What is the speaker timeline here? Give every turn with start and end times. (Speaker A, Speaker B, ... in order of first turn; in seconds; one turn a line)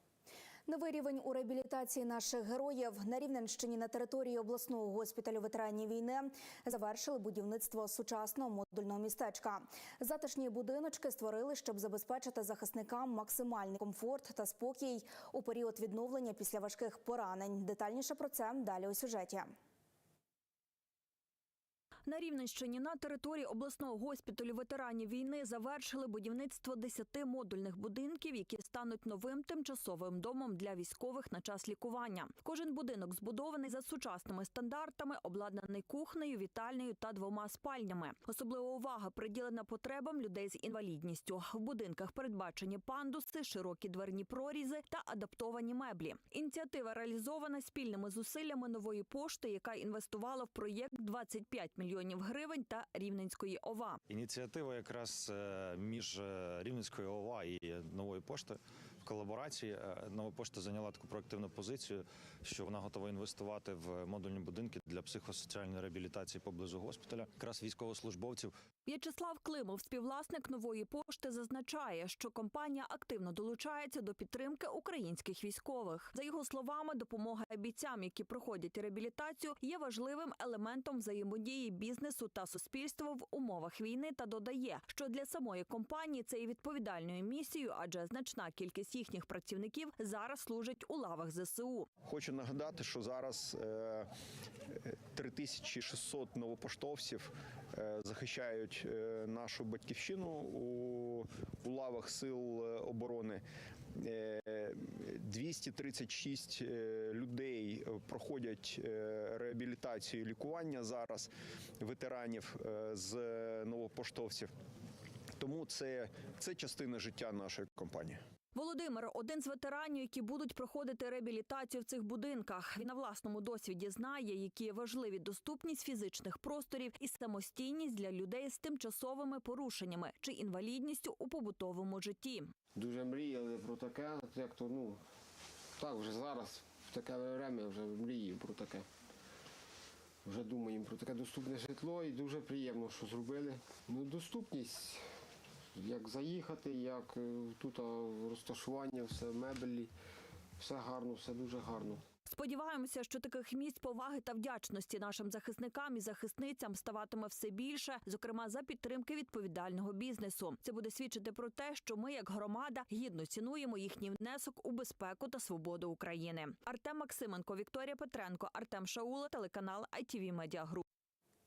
Speaker A: 0.7-19.5
Speaker B: 22.0-54.0
Speaker C: 54.1-68.5
Speaker B: 68.8-91.9
Speaker D: 92.0-94.1
Speaker D: 94.7-103.4
Speaker D: 103.9-114.5
Speaker D: 115.4-118.2
Speaker B: 118.5-132.5
Speaker E: 132.7-135.0
Speaker E: 135.8-138.8
Speaker E: 140.2-145.0
Speaker E: 145.7-149.9
Speaker E: 150.6-152.0
Speaker B: 152.2-170.8